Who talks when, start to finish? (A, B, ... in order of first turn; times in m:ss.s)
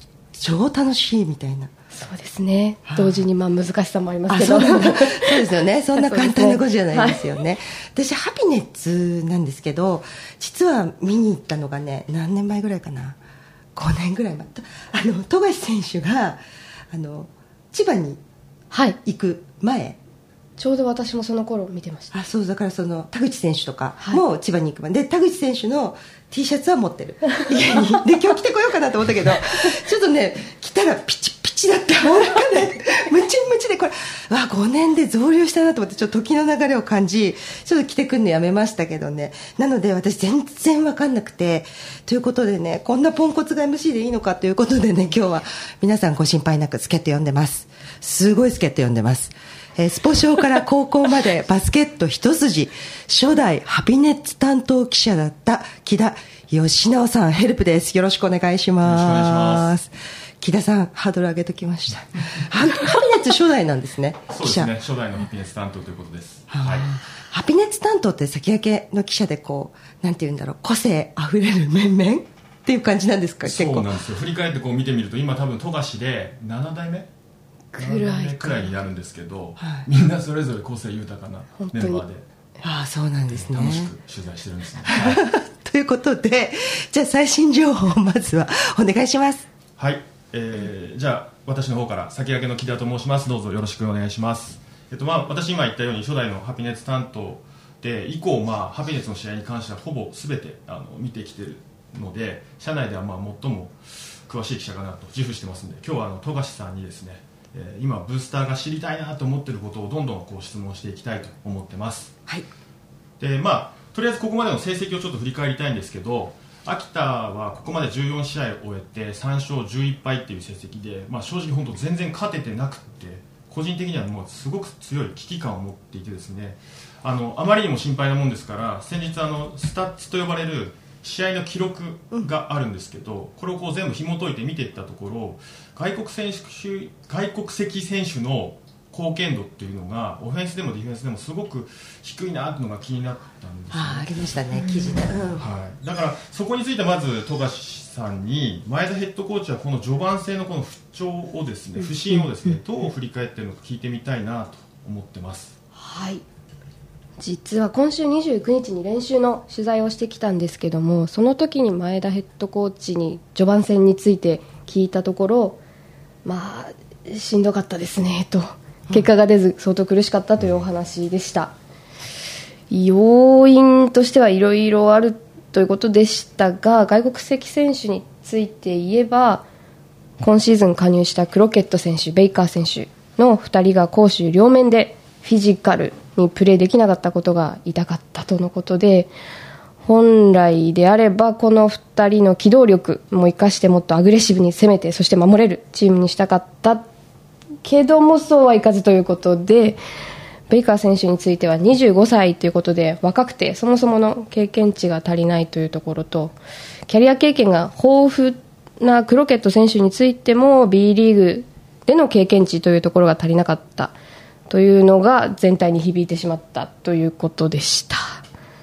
0:00.3-0:01.7 A
0:01.9-0:07.2 B
0:02.9-0:03.2 A
0:04.3-0:13.2 A
0:13.8-0:16.4 A
0:16.9-0:18.2 A
0:18.7-0:19.0 B
0:19.0-0:20.0 A
0:20.6-0:22.2 B
0:22.1-1:04.7 A
0:58.8-0:59.8 C
1:04.3-1:06.9 C
1:06.5-1:13.9 A
1:13.4-1:17.1 C
1:17.7-1:18.8 B
1:17.8-1:22.2 C
1:21.6-1:22.0 B
1:22.6-1:23.9 A
1:23.3-1:25.2 C
1:25.0-1:29.5 A
1:29.8-1:52.2 C
1:53.2-2:35.6 C
2:23.7-2:25.4 A
2:24.6-2:25.0 B
2:35.8-2:36.2 B
2:37.2-2:45.6 B
2:46.2-2:51.5 B
2:52.7-2:59.4 B
3:00.2-3:09.1 B
3:09.8-3:16.9 B
3:17.6-3:19.8 B
3:20.5-3:34.0 B
3:34.5-3:38.2 B